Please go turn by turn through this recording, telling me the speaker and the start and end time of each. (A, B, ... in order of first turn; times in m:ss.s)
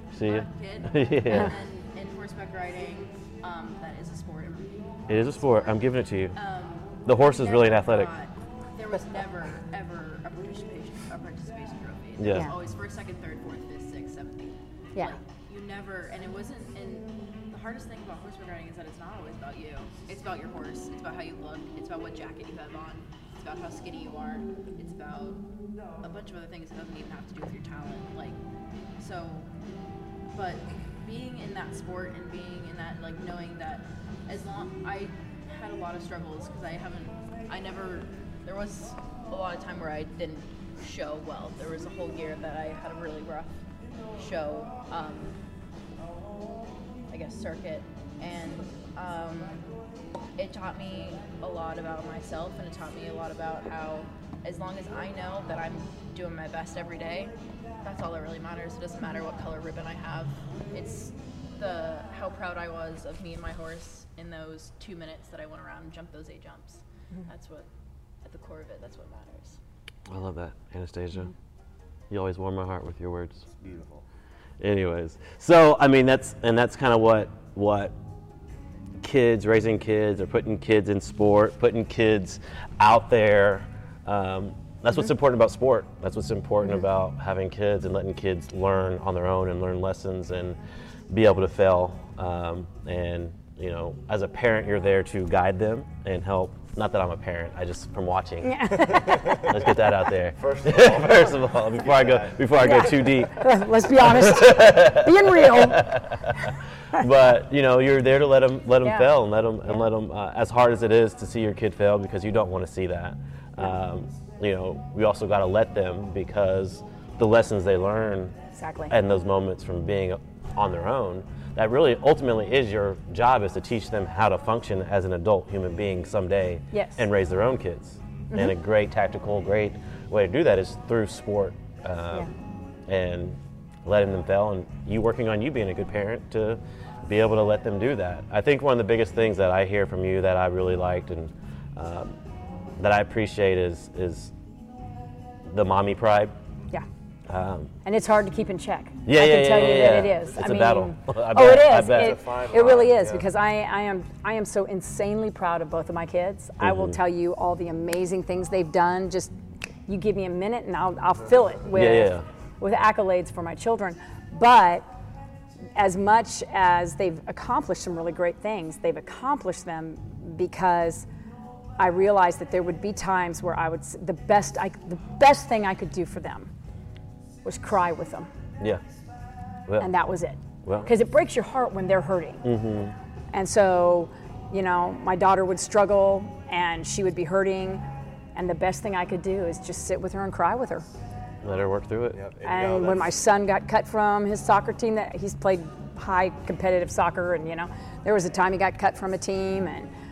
0:00.1-0:01.5 A
0:00.2-0:05.8 B
0:05.1-0:06.4 A
0:06.3-0:25.4 B
0:07.0-0:08.1 A
0:12.2-0:12.5 A
0:26.0-0:28.4 B
0:29.0-0:29.5 B
0:30.3-0:43.6 B
0:44.2-0:45.4 B
0:47.1-0:49.7 B
0:50.4-1:07.7 B
1:08.2-1:09.6 B
1:10.1-1:11.3 A
1:12.1-1:13.4 A
1:13.5-1:14.0 C
1:14.6-1:18.0 A
1:19.0-1:30.6 A
1:31.1-1:58.4 A
1:38.4-1:39.5 D
1:39.0-1:39.8 C
1:40.3-1:42.6 C
1:42.6-1:47.0 D
1:48.8-1:49.1 D
1:58.6-1:58.9 D
1:58.9-2:12.3 A
2:06.7-2:07.0 D
2:12.9-2:22.2 A
2:22.8-2:24.3 A
2:25.5-2:26.4 A
2:27.3-2:27.7 A
2:27.8-2:39.3 D
2:29.1-2:32.2 A
2:29.9-2:30.2 C
2:31.8-2:33.3 C
2:36.6-2:37.0 A
2:39.9-2:44.9 D
2:41.7-2:42.2 A
2:45.8-2:51.1 D
2:51.8-2:56.5 D
2:57.4-2:58.3 D
2:59.8-3:02.4 D
3:00.6-3:00.9 A
3:02.4-3:03.0 A
3:03.3-3:07.8 D
3:08.4-3:10.8 D
3:11.4-3:12.2 A
3:12.1-3:13.2 C
3:12.4-3:19.9 D